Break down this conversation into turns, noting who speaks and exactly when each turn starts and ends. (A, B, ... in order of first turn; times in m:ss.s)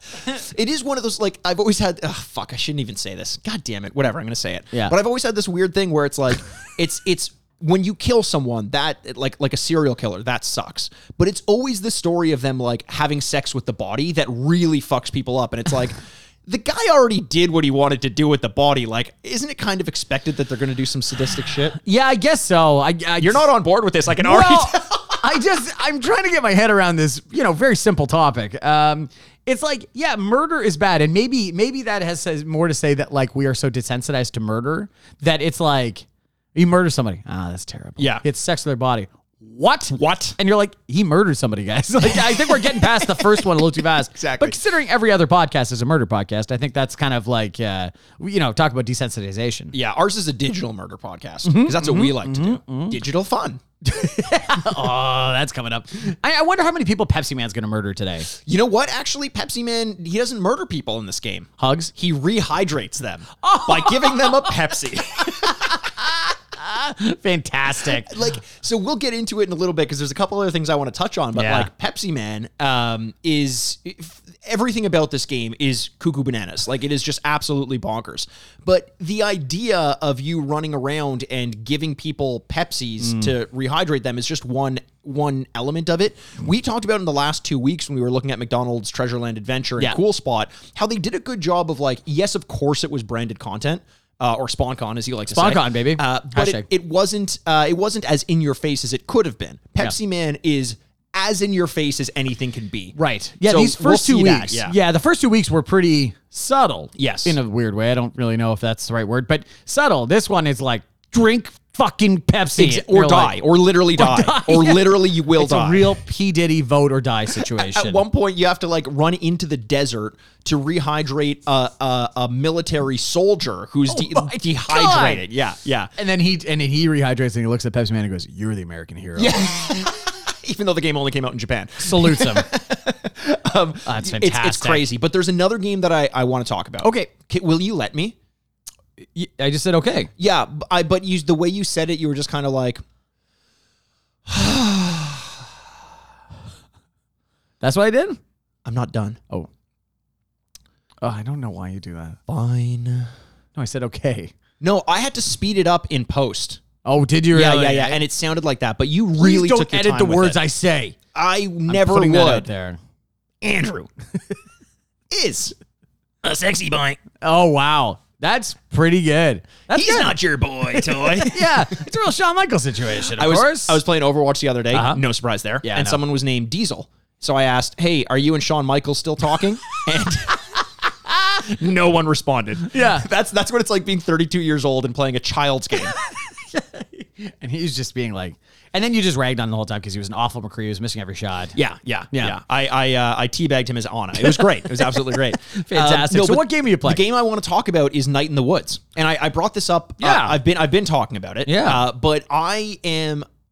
0:00.2-0:21.8 A
0:21.8-0:23.5 B
0:23.2-0:25.2 A
0:24.2-0:49.7 B
0:38.0-0:38.2 A
0:39.9-0:40.4 A
0:44.2-0:44.6 A
0:49.7-0:53.6 A
0:51.4-0:53.0 B
0:53.8-0:58.3 B
0:58.4-1:05.7 A
1:01.6-1:01.9 B
1:03.4-1:04.5 B
1:05.3-1:08.1 B
1:07.8-1:44.8 A
1:11.4-1:11.7 B
1:23.0-1:23.3 B
1:35.3-1:36.6 B
1:43.0-1:53.3 B
1:47.0-1:47.4 A
1:52.6-1:56.0 A
1:54.0-1:58.0 B
1:57.3-2:05.9 A
2:03.9-2:05.2 B
2:06.0-2:09.4 B
2:09.2-2:18.2 A
2:11.8-2:12.5 B
2:13.8-2:14.8 B
2:16.8-2:17.1 B
2:19.1-2:20.1 B
2:20.2-2:22.8 A
2:24.3-2:25.4 A
2:27.6-2:28.2 B
2:28.6-2:29.2 A
2:31.0-2:32.2 B
2:32.3-2:33.1 A
2:33.6-2:34.3 B
2:34.6-2:36.6 A
2:36.8-2:38.0 B
2:37.3-2:40.4 A
2:39.2-2:41.0 B
2:41.1-2:42.5 A
2:41.7-2:42.8 B
2:43.4-2:43.9 A
2:45.1-2:45.5 A
2:46.2-2:47.0 A
2:47.2-2:50.2 B
2:49.7-2:51.8 A
2:50.7-2:53.8 B
2:53.1-3:00.4 A
2:54.7-2:55.0 B
2:55.6-2:56.0 B
3:01.3-3:05.9 A
3:02.7-3:03.0 B
3:05.9-3:11.6 B
3:11.6-3:23.2 A
3:14.2-3:17.0 B
3:20.0-3:20.4 B
3:21.4-3:21.8 B